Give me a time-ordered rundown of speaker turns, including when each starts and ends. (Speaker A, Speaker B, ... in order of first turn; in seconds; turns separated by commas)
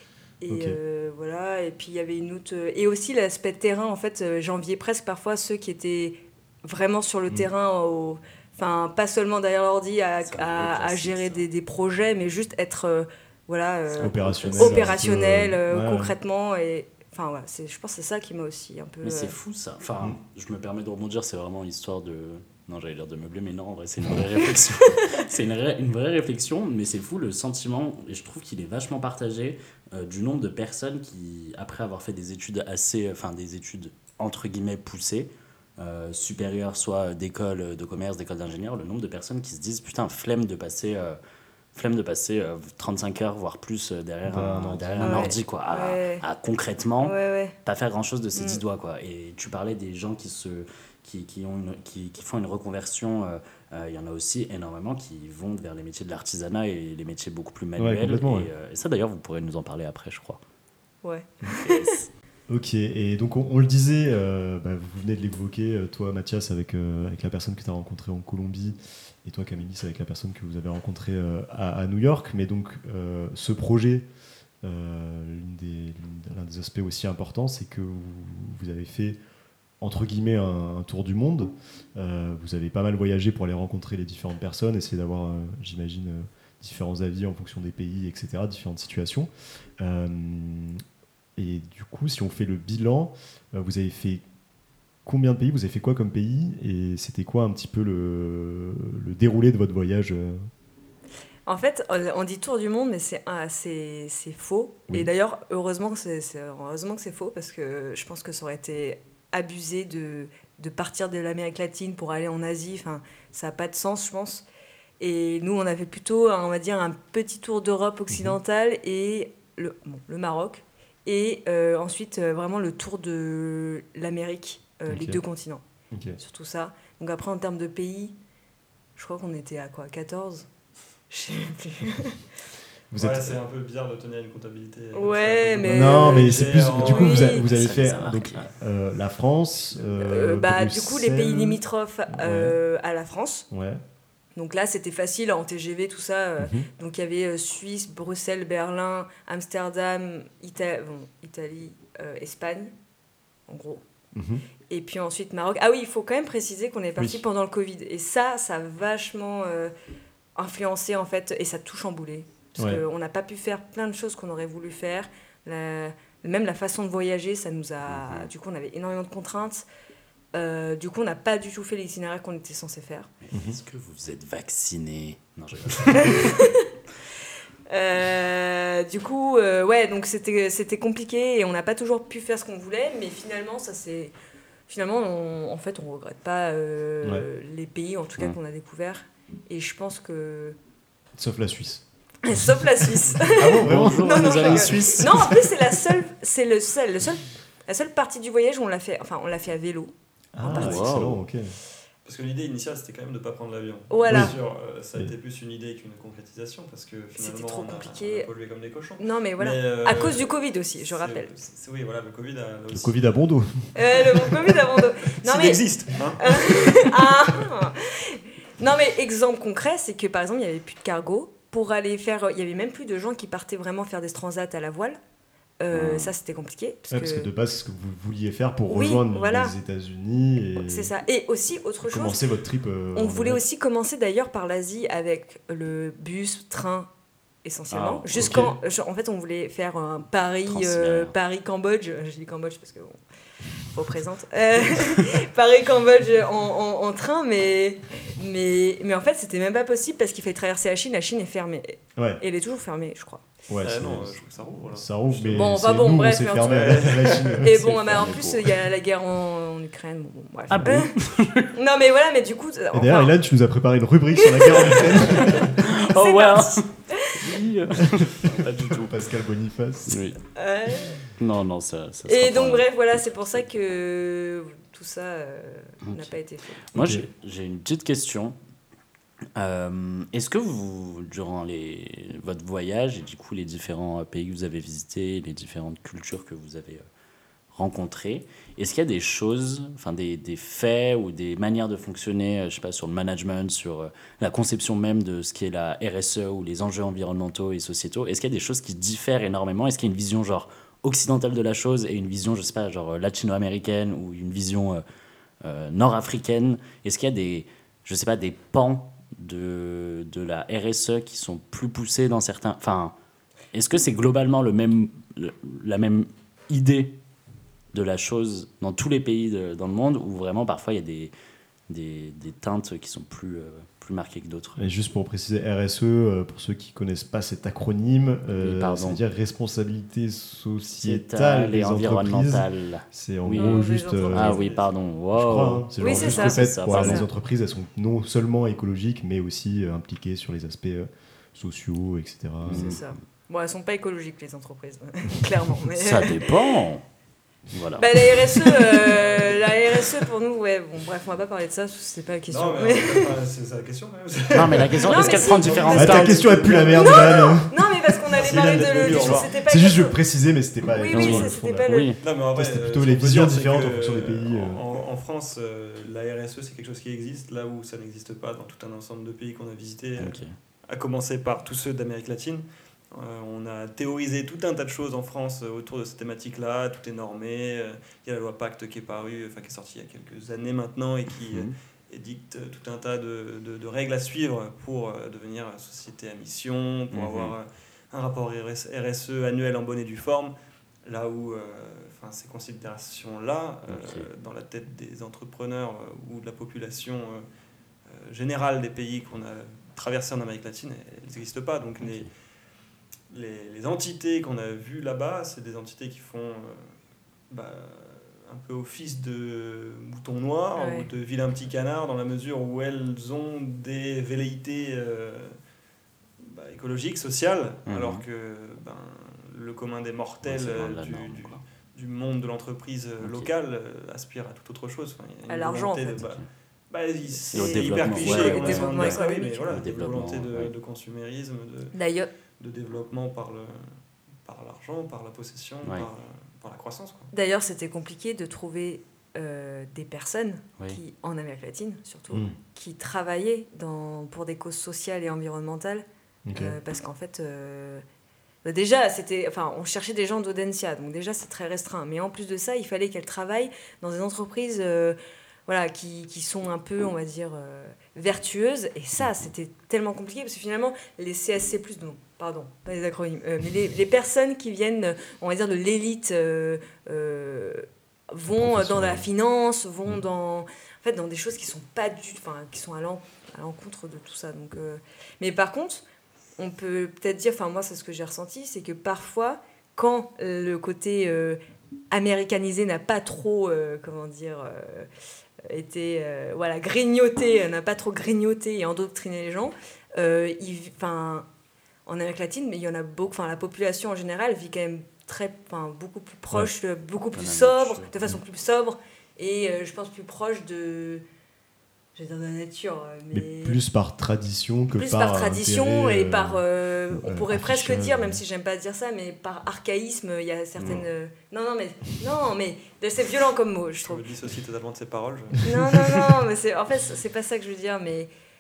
Speaker A: 0.4-19.4, Speaker B: 0.5-0.8, Speaker C: 10.2-11.4, Speaker C: 14.0-15.0, Speaker B: 14.0-16.1, Speaker C: 19.0-41.2, Speaker C: 41.7-60.4, Speaker B: 44.2-45.4, Speaker A: 45.0-46.2, Speaker A: 47.0-47.5, Speaker A: 48.4-48.6, Speaker B: 57.8-58.5, Speaker A: 61.0-62.0, Speaker C: 61.5-62.0, Speaker B: 62.5-74.1, Speaker B: 74.6-79.2, Speaker B: 79.8-90.8, Speaker B: 91.4-94.2, Speaker B: 95.1-100.4, Speaker A: 101.5-114.5, Speaker A: 115.0-125.6, Speaker B: 118.1-118.4, Speaker B: 124.9-125.2, Speaker B: 125.9-126.2, Speaker A: 126.2-128.2, Speaker A: 129.0-130.5, Speaker A: 131.1-132.2, Speaker B: 132.9-133.4, Speaker D: 133.0-137.4, Speaker A: 134.9-137.5, Speaker B: 135.6-142.6, Speaker C: 137.4-138.5, Speaker A: 140.0-143.5, Speaker B: 143.5-143.8, Speaker A: 144.3-152.7, Speaker B: 146.4-146.7, Speaker A: 153.5-153.8, Speaker B: 154.2-154.4, Speaker A: 154.7-159.7, Speaker B: 157.0-157.2, Speaker A: 160.4-169.7, Speaker C: 167.9-168.3, Speaker A: 170.3-173.1, Speaker C: 173.3-176.4, Speaker B: 173.3-173.6, Speaker A: 175.9-176.7, Speaker A: 177.7-184.2, Speaker A: 184.7-190.6, Speaker B: 191.2-191.8, Speaker A: 192.2-199.9, Speaker B: 193.2-195.4, Speaker C: 193.3-195.4, Speaker B: 200.3-201.5, Speaker A: 200.4-200.8, Speaker C: 200.4-201.2, Speaker D: 202.1-213.0, Speaker A: 203.9-204.3, Speaker B: 204.1-204.4, Speaker A: 207.2-208.3, Speaker A: 209.0-211.3, Speaker B: 212.7-213.7, Speaker A: 213.8-215.7, Speaker D: 215.1-216.9, Speaker A: 216.2-225.0, Speaker A: 225.6-227.3, Speaker C: 225.8-226.1, Speaker B: 226.9-230.9, Speaker A: 228.7-229.6, Speaker A: 230.6-232.2, Speaker B: 231.9-233.4, Speaker A: 232.9-236.9, Speaker A: 237.4-243.0, Speaker C: 237.7-238.5, Speaker B: 238.2-238.6, Speaker C: 240.5-241.1, Speaker A: 243.6-253.2, Speaker B: 252.0-252.2, Speaker B: 253.5-254.2, Speaker D: 253.6-255.5, Speaker B: 254.7-258.6, Speaker A: 255.3-260.9, Speaker D: 256.4-257.5, Speaker C: 260.5-261.5, Speaker B: 260.6-260.8, Speaker A: 261.5-263.1, Speaker B: 262.7-265.5, Speaker A: 264.2-267.3, Speaker C: 265.2-268.9, Speaker B: 267.8-270.2, Speaker C: 269.9-270.2, Speaker A: 270.4-271.0, Speaker C: 271.2-272.7, Speaker A: 272.1-276.6, Speaker C: 275.8-276.1, Speaker C: 276.7-278.4, Speaker B: 276.8-277.1, Speaker C: 279.4-286.8, Speaker C: 287.5-304.8, Speaker C: 305.4-312.9, Speaker C: 313.5-316.9, Speaker C: 317.7-321.1, Speaker C: 321.7-324.6, Speaker B: 324.6-334.5, Speaker C: 328.4-329.0, Speaker C: 330.8-337.1, Speaker A: 333.4-334.7, Speaker D: 334.2-334.7, Speaker B: 335.1-342.8, Speaker A: 335.8-337.1, Speaker C: 342.4-342.8, Speaker A: 342.5-346.3, Speaker B: 345.1-345.4, Speaker C: 345.8-346.8, Speaker C: 347.5-349.0, Speaker A: 347.8-353.2, Speaker D: 352.3-357.3, Speaker C: 354.3-356.5, Speaker A: 354.9-360.0, Speaker B: 355.8-361.7, Speaker D: 358.1-359.3, Speaker A: 360.7-361.9, Speaker C: 360.9-362.0, Speaker D: 362.0-390.3, Speaker B: 362.3-364.6, Speaker C: 370.0-370.3, Speaker C: 381.3-381.5, Speaker C: 386.9-387.4, Speaker D: 390.9-397.2, Speaker C: 393.7-394.1, Speaker D: 397.9-402.1, Speaker C: 401.8-402.1, Speaker D: 403.1-406.7, Speaker D: 407.3-415.4, Speaker A: 410.6-410.9, Speaker D: 416.2-431.8, Speaker C: 417.7-418.0, Speaker C: 420.2-421.4, Speaker C: 423.0-423.3, Speaker A: 425.3-426.0, Speaker A: 427.3-429.6, Speaker C: 427.3-430.5, Speaker A: 431.7-432.1, Speaker D: 432.4-433.7, Speaker D: 434.2-437.1, Speaker A: 437.1-447.8, Speaker B: 442.1-442.4, Speaker B: 446.3-446.6, Speaker A: 448.4-475.8, Speaker B: 468.4-469.1, Speaker A: 476.4-481.4, Speaker A: 481.9-484.9, Speaker A: 485.4-491.3, Speaker A: 491.9-501.0, Speaker C: 497.1-497.9, Speaker A: 501.9-503.6, Speaker B: 503.1-508.2, Speaker A: 504.7-514.0, Speaker C: 510.6-510.9, Speaker D: 513.9-515.7, Speaker A: 515.4-518.1